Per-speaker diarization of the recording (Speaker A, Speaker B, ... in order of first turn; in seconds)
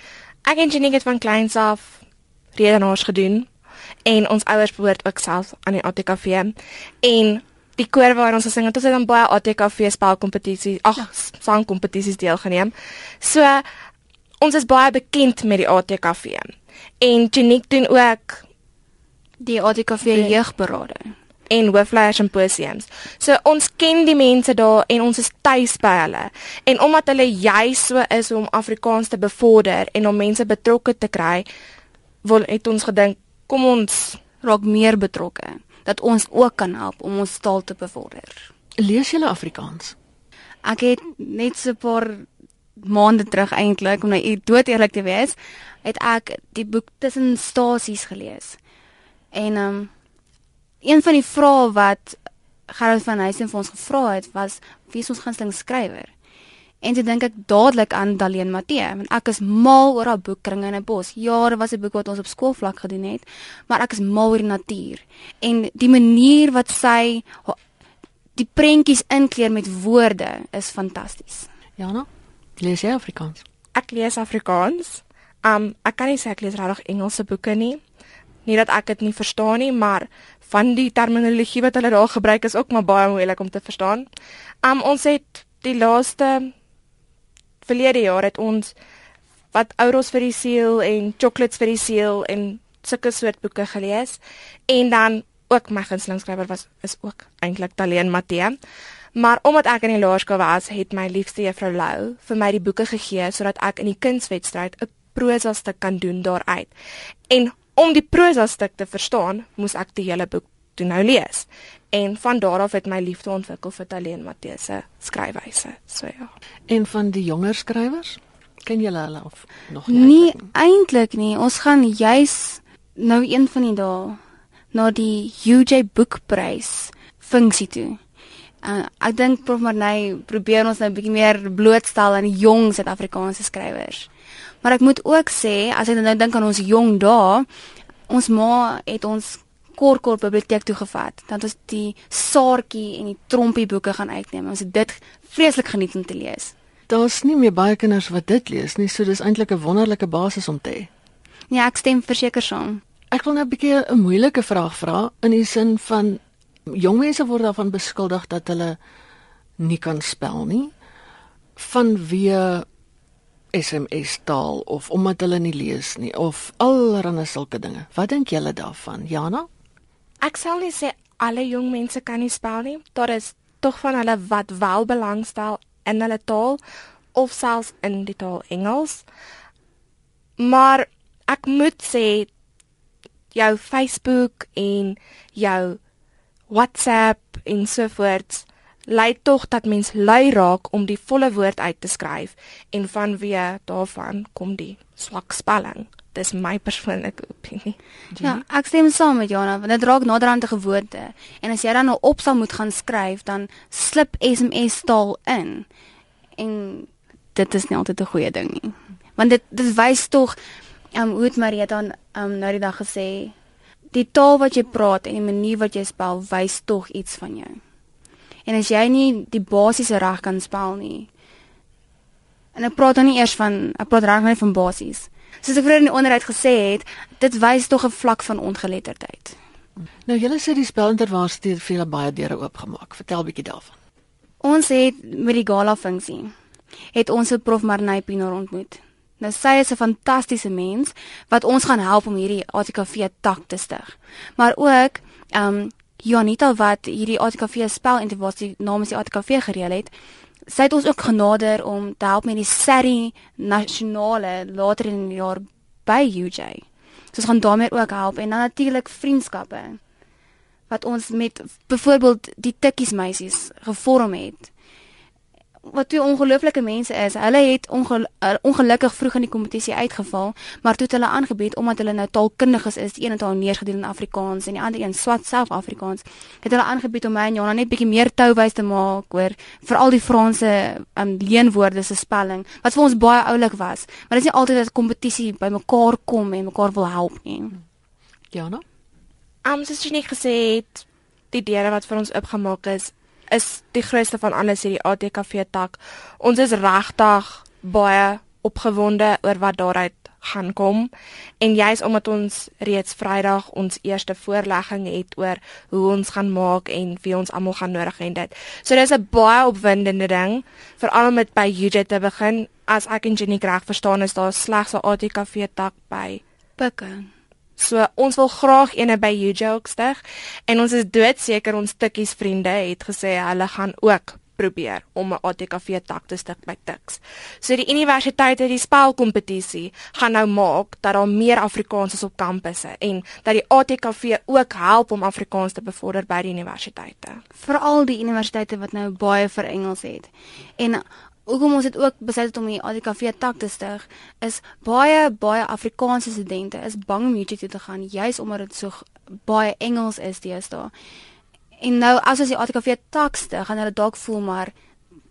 Speaker A: 0.5-2.0, 2.5-3.5, 4.0-13.6, 14.4-18.4, 20.0-20.4, 21.5-31.4, 32.2-34.2, 73.7-77.8, 78.5-84.0, 84.6-86.5, 87.6-88.7, 89.5-98.5, 99.2-106.7, 107.3-116.3, 170.2-176.6, 177.1-179.0, 180.4-182.3, 183.3-185.8, 186.5-197.8, 289.4-300.9, 301.4-316.2, 317.6-337.2
Speaker B: 19.4-21.1, 34.4-38.5, 40.6-42.2, 42.8-48.6, 49.3-49.9, 50.8-56.1, 56.8-67.6, 68.3-71.5, 119.9-124.2, 124.7-128.0, 128.6-134.1, 134.6-137.5, 138.1-146.5, 151.5-152.8, 198.2-205.7, 206.3-210.4, 210.9-213.3, 213.9-217.6, 218.4-221.1, 222.5-229.4, 234.4-236.3, 236.9-249.9, 250.5-259.8, 260.7-264.5, 265.6-287.6, 316.6-317.1, 337.4-350.7, 351.6-354.5
Speaker C: 38.8-40.0, 71.8-73.4, 116.7-120.5, 146.9-150.9, 153.1-158.8, 159.6-160.7, 161.6-162.7, 163.5-169.5, 230.1-233.7, 288.3-288.6